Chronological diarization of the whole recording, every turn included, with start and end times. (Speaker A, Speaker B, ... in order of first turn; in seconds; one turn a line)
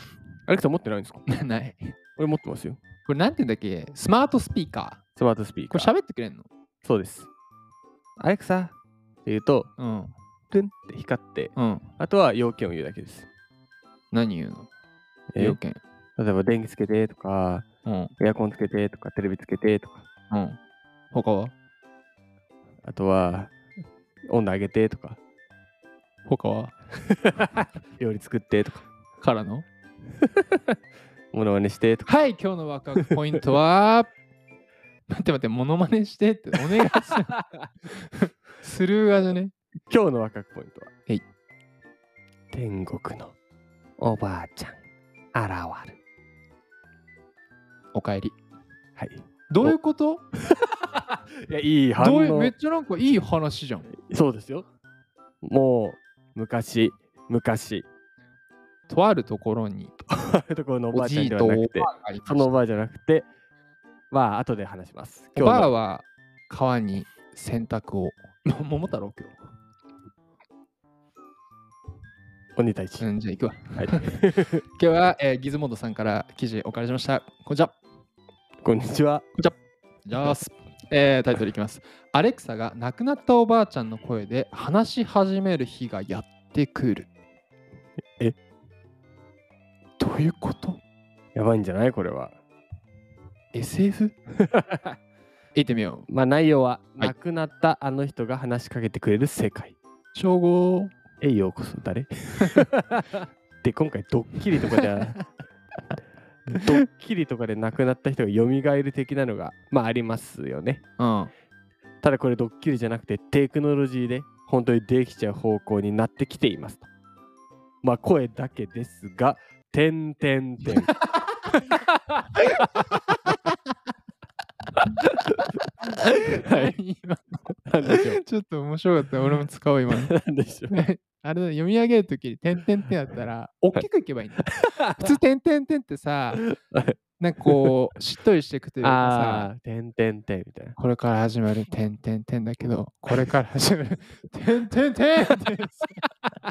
Speaker A: 0.5-1.2
Speaker B: 1.3-1.9
Speaker A: 2.2-2.8
Speaker B: 3.1-5.0
Speaker A: 5.2-5.9
Speaker B: 5.7-6.5
Speaker A: 6.8-7.3
Speaker A: 8.2-8.7
Speaker A: 9.2-9.7
Speaker B: 9.8-10.1
Speaker A: 10.5-13.3
Speaker B: 11.6-11.8
Speaker B: 14.1-14.7
Speaker A: 15.3-15.6
Speaker B: 15.4-15.8
Speaker A: 16.2-17.7
Speaker B: 17.9-18.1
Speaker A: 18.2-20.1
Speaker B: 20.3-20.6
Speaker B: 21.1-21.5
Speaker A: 22.9-23.5
Speaker A: 24.3-25.2
Speaker B: 26.2-26.7
Speaker A: 27.1-28.9
Speaker B: 29.2-29.7
Speaker A: 31.3-32.1
Speaker B: 32.1-34.1
Speaker B: 35.1-37.4
Speaker B: 37.9-39.5
Speaker A: 39.9-40.9
Speaker A: 42.5-43.3
Speaker A: 44.0-44.8
Speaker A: 45.3-46.0
Speaker B: 47.9-48.4
Speaker A: 49.0-49.8
Speaker B: 49.5-50.2
Speaker A: 50.5-52.5
Speaker B: 52.0-53.9
Speaker A: 54.1-54.6
Speaker A: 55.4-57.9
Speaker B: 58.9-60.0
Speaker A: 60.1-63.3
Speaker B: 60.9-62.5
Speaker A: 64.1-65.7
Speaker B: 65.3-69.4
Speaker A: 72.6-73.1
Speaker B: 73.0-74.2
Speaker A: 73.8-74.6
Speaker B: 74.7-77.8
Speaker A: 78.6-79.3
Speaker B: 80.1-87.1
Speaker B: 90.0-90.8
Speaker A: 91.3-92.4
Speaker B: 93.5-94.1
Speaker A: 94.5-95.0
Speaker B: 95.5-96.1
Speaker A: 96.1-99.8
Speaker B: 100.1-100.9
Speaker A: 101.2-105.2
Speaker A: 106.5-110.8
Speaker B: 111.0-111.3
Speaker A: 112.0-116.9
Speaker A: 117.8-120.9
Speaker B: 120.7-121.2
Speaker A: 121.7-122.8
Speaker A: 124.8-125.3
Speaker B: 126.2-130.1
Speaker A: 127.7-128.2
Speaker A: 129.9-130.8
Speaker B: 130.7-136.5
Speaker A: 134.4-135.2
Speaker A: 136.3-137.7
Speaker B: 137.2-139.5
Speaker A: 138.8-140.8
Speaker B: 140.8-146.0